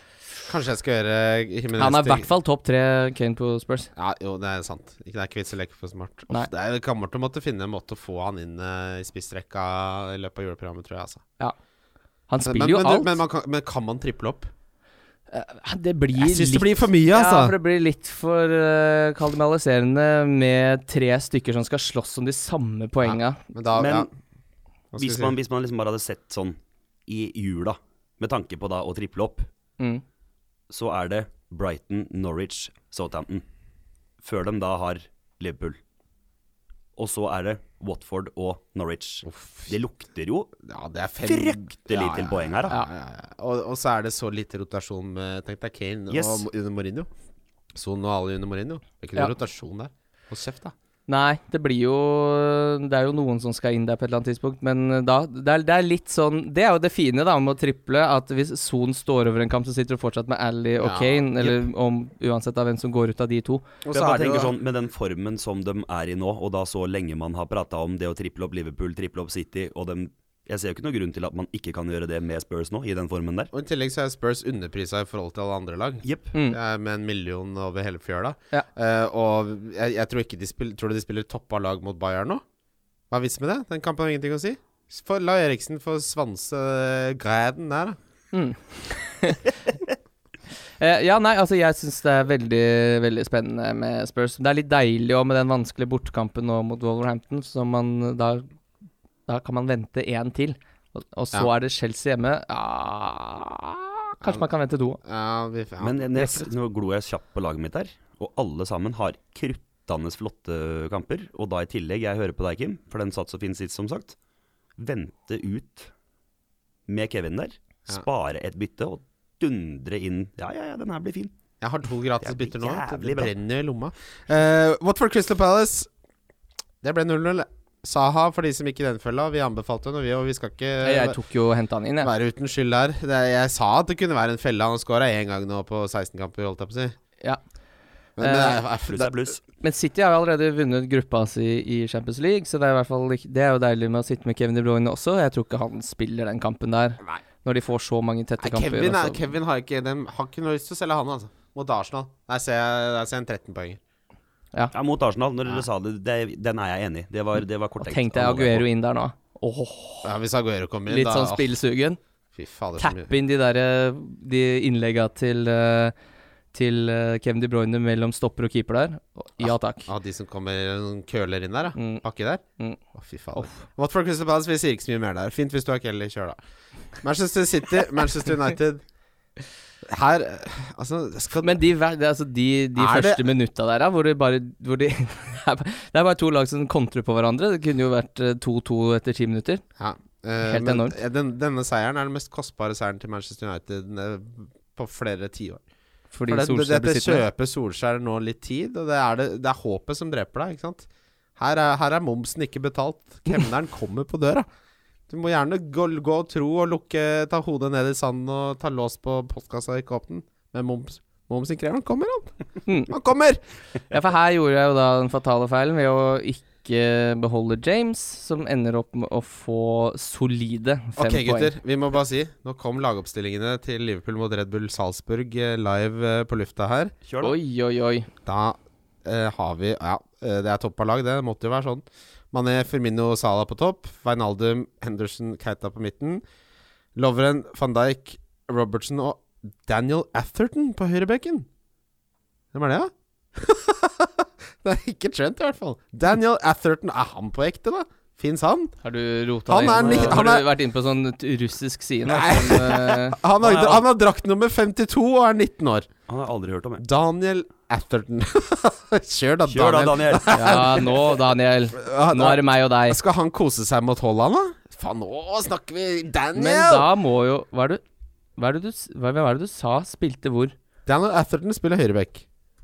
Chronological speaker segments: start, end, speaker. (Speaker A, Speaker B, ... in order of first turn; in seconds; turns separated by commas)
Speaker A: 0.5-2.3, Speaker B: 1.8-3.9, Speaker A: 4.0-11.2, Speaker B: 12.3-13.2, Speaker A: 12.4-14.5, Speaker B: 15.3-23.4, Speaker A: 16.2-17.6, Speaker A: 23.0-24.1, Speaker C: 23.8-24.1, Speaker A: 24.9-25.4, Speaker C: 25.0-29.5, Speaker C: 30.7-33.4, Speaker C: 34.2-35.8, Speaker C: 37.0-40.5, Speaker A: 39.2-39.8, Speaker A: 40.6-47.1, Speaker C: 41.2-42.8, Speaker C: 46.1-46.5, Speaker A: 47.8-50.7, Speaker B: 51.1-63.6, Speaker A: 60.8-61.6, Speaker A: 63.8-64.5, Speaker C: 63.9-73.5, Speaker A: 73.5-82.4, Speaker C: 76.0-76.3, Speaker A: 83.1-88.0, Speaker B: 88.3-89.5, Speaker B: 90.8-98.5, Speaker B: 99.3-105.0, Speaker A: 105.0-106.5, Speaker C: 105.8-114.2, Speaker C: 114.8-115.9, Speaker C: 116.9-121.3, Speaker A: 121.6-125.9, Speaker C: 122.2-123.3, Speaker A: 126.8-131.2, Speaker B: 130.8-132.1, Speaker A: 132.0-136.9, Speaker A: 138.2-139.1, Speaker B: 138.2-138.6, Speaker C: 138.9-139.4, Speaker B: 139.6-149.2, Speaker A: 148.4-153.8, Speaker C: 154.7-158.7, Speaker B: 157.8-160.1, Speaker A: 160.0-161.5, Speaker B: 160.9-162.0, Speaker A: 162.3-163.1, Speaker B: 162.8-165.9, Speaker B: 166.5-169.9, Speaker A: 169.4-172.4, Speaker B: 171.8-172.0, Speaker A: 172.9-176.4, Speaker B: 173.3-173.6, Speaker A: 177.0-178.8, Speaker A: 179.8-181.6, Speaker B: 181.4-189.6, Speaker A: 182.8-183.3, Speaker A: 189.8-195.6, Speaker B: 190.4-191.0, Speaker B: 196.1-197.2, Speaker A: 196.3-204.5, Speaker A: 205.1-212.3, Speaker B: 212.7-212.9, Speaker A: 212.9-213.4, Speaker B: 213.9-221.6, Speaker A: 221.0-226.9, Speaker C: 227.1-227.4, Speaker B: 227.2-228.1, Speaker A: 228.2-236.2, Speaker A: 237.0-241.5, Speaker A: 242.5-248.8, Speaker B: 248.8-253.2, Speaker A: 249.5-250.5, Speaker C: 249.8-250.2, Speaker A: 252.1-255.9, Speaker C: 253.4-253.8, Speaker C: 256.1-256.8, Speaker A: 256.8-261.1, Speaker C: 259.5-260.7, Speaker B: 260.3-263.0, Speaker A: 261.8-266.9, Speaker B: 266.4-267.8, Speaker B: 268.4-270.6, Speaker A: 270.9-272.2